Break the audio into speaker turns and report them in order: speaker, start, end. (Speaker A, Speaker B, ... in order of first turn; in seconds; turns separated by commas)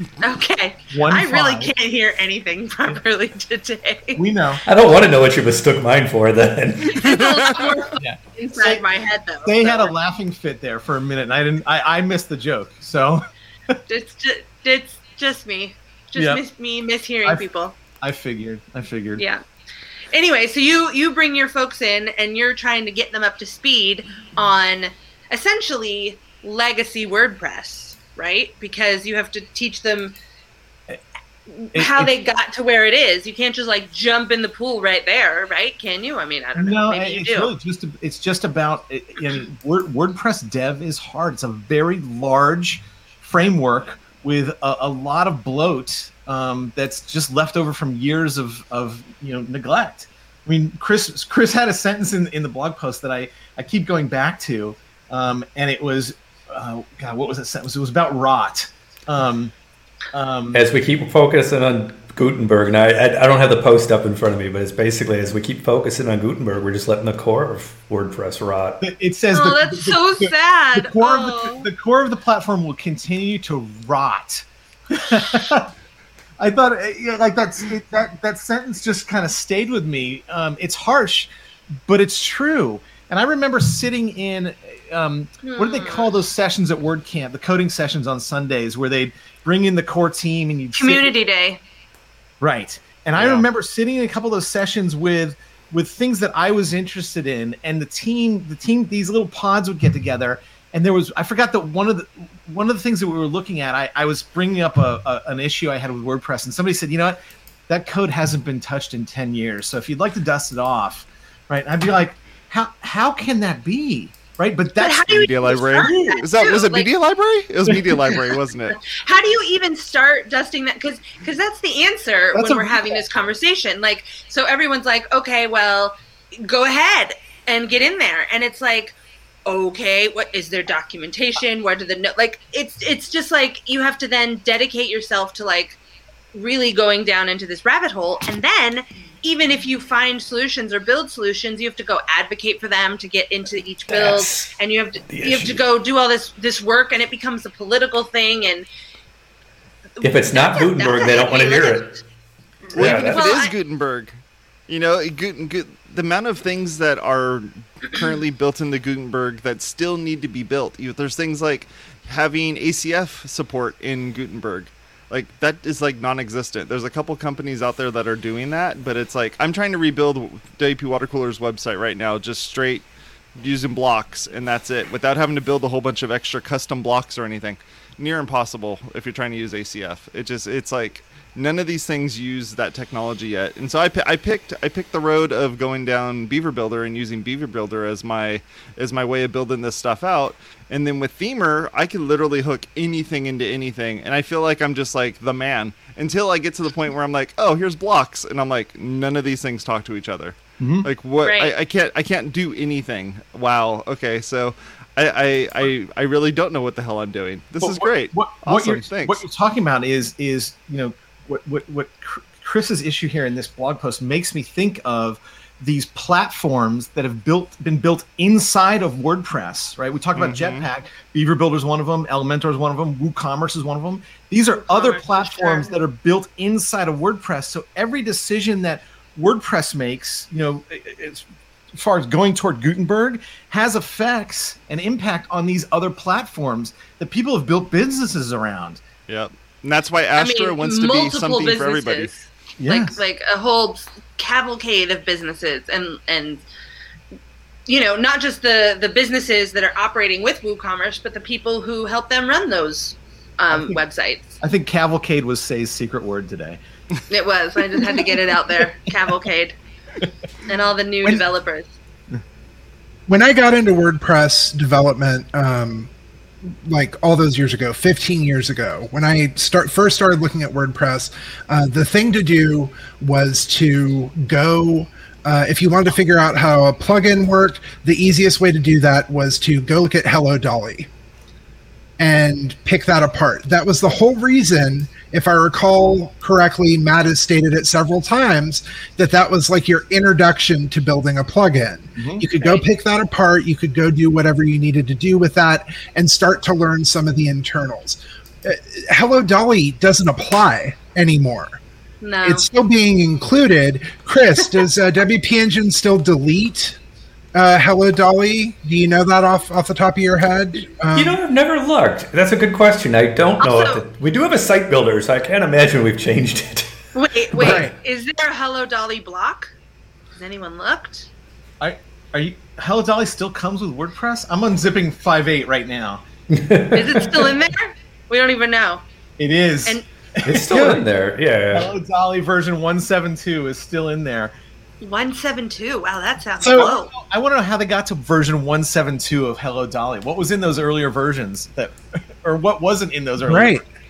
Speaker A: 0.2-4.2, Speaker B: 0.9-1.7, Speaker B: 4.2-4.6, Speaker C: 4.7-7.1, Speaker A: 6.8-9.9, Speaker D: 7.0-7.4, Speaker B: 8.0-8.8, Speaker B: 9.4-13.8, Speaker A: 13.9-17.8, Speaker B: 16.1-16.4, Speaker B: 18.0-19.2, Speaker A: 19.2-19.4, Speaker A: 20.1-30.2, Speaker A: 31.5-37.5, Speaker B: 31.7-32.1, Speaker B: 36.6-59.5, Speaker B: 60.1-60.6, Speaker C: 60.5-68.8, Speaker B: 68.8-75.7, Speaker A: 69.3-71.7, Speaker B: 76.4-81.3, Speaker B: 81.9-91.1, Speaker A: 85.4-86.1, Speaker A: 90.7-91.6, Speaker B: 92.4-116.6, Speaker D: 93.2-93.5, Speaker A: 114.8-116.9, Speaker D: 115.2-118.8, Speaker B: 117.7-118.2, Speaker A: 118.7-135.8, Speaker B: 122.3-123.0, Speaker A: 136.3-148.7, Speaker C: 143.9-144.5, Speaker C: 145.1-145.6, Speaker A: 150.0-152.0, Speaker C: 150.0-151.9, Speaker A: 152.7-153.5, Speaker C: 152.7-153.5, Speaker D: 152.7-154.2, Speaker D: 154.7-172.9, Speaker D: 173.4-209.2, Speaker B: 200.6-200.9, Speaker A: 201.2-201.5, Speaker B: 207.6-238.8, Speaker D: 220.2-220.7, Speaker A: 224.6-225.8, Speaker D: 239.1-242.1, Speaker A: 240.2-246.4, Speaker B: 242.6-243.0, Speaker A: 247.7-254.4, Speaker B: 253.5-253.8, Speaker B: 254.4-256.6, Speaker A: 257.1-259.6, Speaker B: 257.8-258.2, Speaker A: 260.5-261.8, Speaker E: 263.1-265.9, Speaker E: 266.4-280.9, Speaker E: 282.0-301.6, Speaker B: 292.0-292.3, Speaker A: 292.4-292.7, Speaker A: 302.0-302.4, Speaker E: 302.2-306.8, Speaker E: 307.3-311.2, Speaker C: 310.9-316.7, Speaker A: 313.4-313.8, Speaker A: 316.9-319.5, Speaker C: 317.3-317.7, Speaker E: 317.4-317.7, Speaker A: 320.2-321.1, Speaker B: 321.6-326.1, Speaker C: 326.3-327.3, Speaker A: 326.7-328.8, Speaker B: 329.2-330.8, Speaker C: 330.2-331.7, Speaker B: 331.5-334.3, Speaker A: 334.8-336.9, Speaker B: 336.4-343.6, Speaker E: 343.2-343.6